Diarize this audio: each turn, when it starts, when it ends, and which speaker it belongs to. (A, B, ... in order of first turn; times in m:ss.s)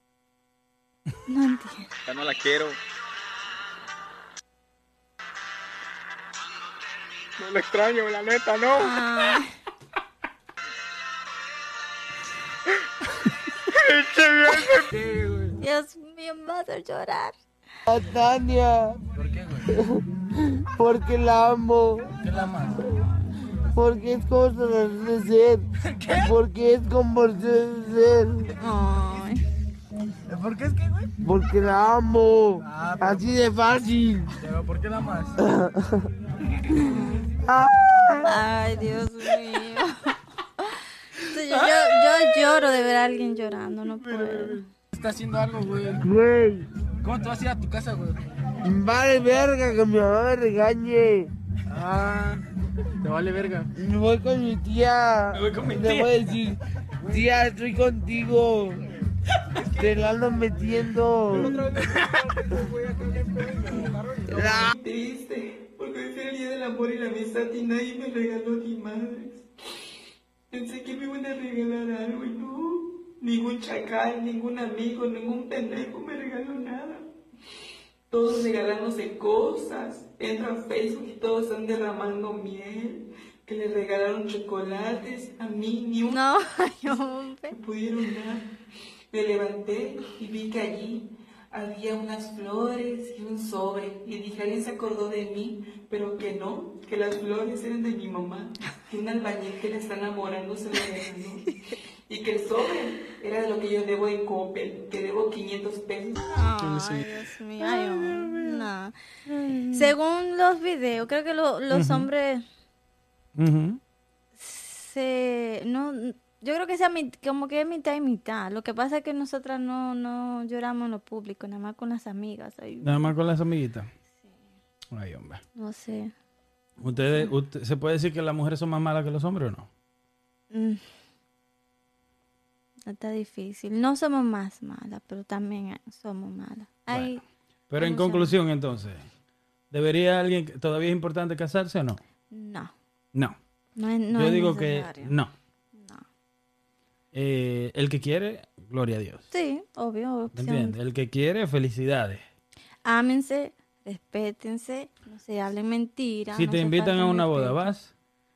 0:01.2-0:01.9 A
0:02.0-0:02.8 B
0:07.4-0:09.0 B
0:08.7-0:09.5 A
0:13.7-0:14.8 B
0:14.9-0:15.6 C
0:15.6-0:17.4 A
0:17.9-0:19.0 D
0:19.1-0:19.7 C
0:19.7-0:22.2 D
0:22.2-0:22.9 C
0:22.8-0:23.1 A
0:23.7-0:25.6 D
0:25.8-0:26.3 C
0:26.2-0:28.5 D
0:28.6-0:29.4 A
0:30.3-0:31.1 C
0:31.2-0:34.3 D
0:32.6-0:33.2 C
0:34.4-0:35.4 C
0:35.4-0:36.1 D
0:36.7-0:37.3 A
0:36.7-0:37.0 C
0:37.5-0:38.3 D
0:38.2-0:44.7 A
0:44.0-0:44.6 E
0:44.9-0:46.0 C
0:46.0-0:46.7 D
0:47.0-0:48.2 C
0:48.6-0:51.3 D
0:51.7-0:52.4 C
0:53.0-0:53.7 C
0:53.7-0:58.9 D
0:55.3-0:56.1 E
0:59.6-1:00.2 C
0:59.7-1:01.7 D
1:01.3-1:04.7 C
1:04.3-1:04.7 D
1:04.7-1:09.4 F
1:10.5-1:17.0 F
1:18.1-1:26.2 F
1:26.1-1:27.6 A
1:27.5-1:28.4 F
1:29.1-1:41.5 F
1:42.1-1:46.3 F
1:46.3-1:48.9 A
1:46.6-1:47.0 C
1:47.6-1:48.7 E
1:49.2-1:49.9 E
1:49.7-1:52.4 A
1:51.7-1:52.1 E
1:53.4-1:53.8 E
1:54.3-2:03.1 A
2:02.8-2:03.9 E
2:04.9-2:05.4 E
2:05.6-2:06.1 A
2:06.8-2:09.7 E
2:06.8-2:07.3 A
2:10.5-2:10.8 A
2:12.9-2:17.2 A
2:16.9-2:19.1 E
2:17.8-2:18.4 A
2:19.7-2:22.0 E
2:22.3-2:22.7 A
2:23.8-2:25.2 A
2:24.1-2:25.3 E
2:25.7-2:26.0 A
2:27.1-2:29.3 E
2:29.3-2:30.8 A
2:30.3-2:32.2 E
2:32.8-2:37.7 A
2:36.3-2:37.9 E